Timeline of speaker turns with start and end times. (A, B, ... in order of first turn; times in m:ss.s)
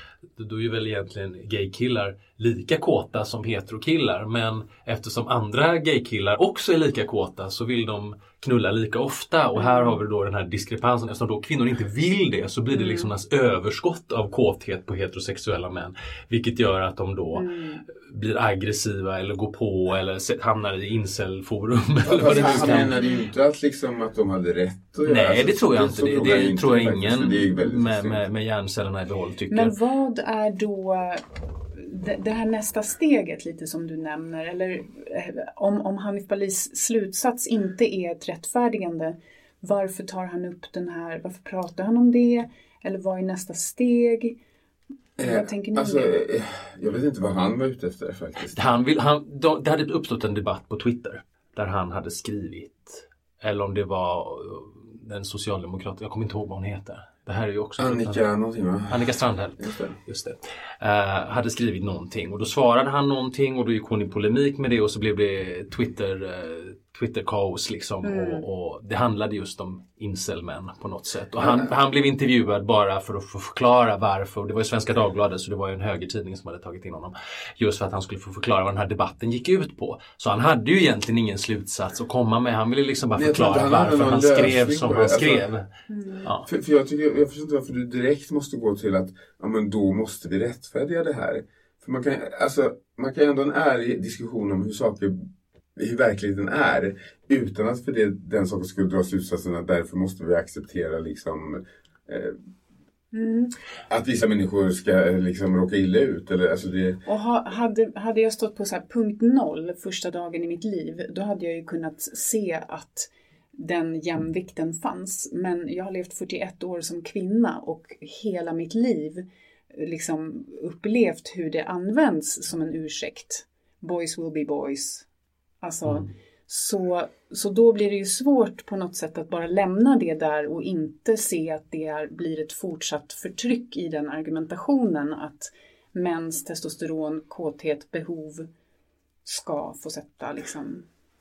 0:00.4-0:23.0 A
0:09.6-0:10.0 B
0:12.7-0:13.1 B
0:17.4-0:17.8 B
0:22.0-0:28.2 C
0:22.3-0:23.2 B
0:25.1-0:29.8 A
0:29.5-0:44.4 B
0:45.2-0:48.6 C
0:45.2-0:46.2 B
0:48.6-0:58.2 A
0:57.8-1:00.0 C
0:58.9-1:25.7 A
1:08.0-1:08.4 B
1:11.4-1:11.7 C
1:23.2-1:25.5 C
1:25.9-1:26.2 B
1:26.2-1:26.5 A
1:26.5-1:35.2 C
1:35.8-1:42.4 C
1:43.1-1:43.5 B
1:43.9-1:47.0 C
1:47.1-2:05.1 B
2:05.6-2:18.5 B
2:19.2-2:20.9 B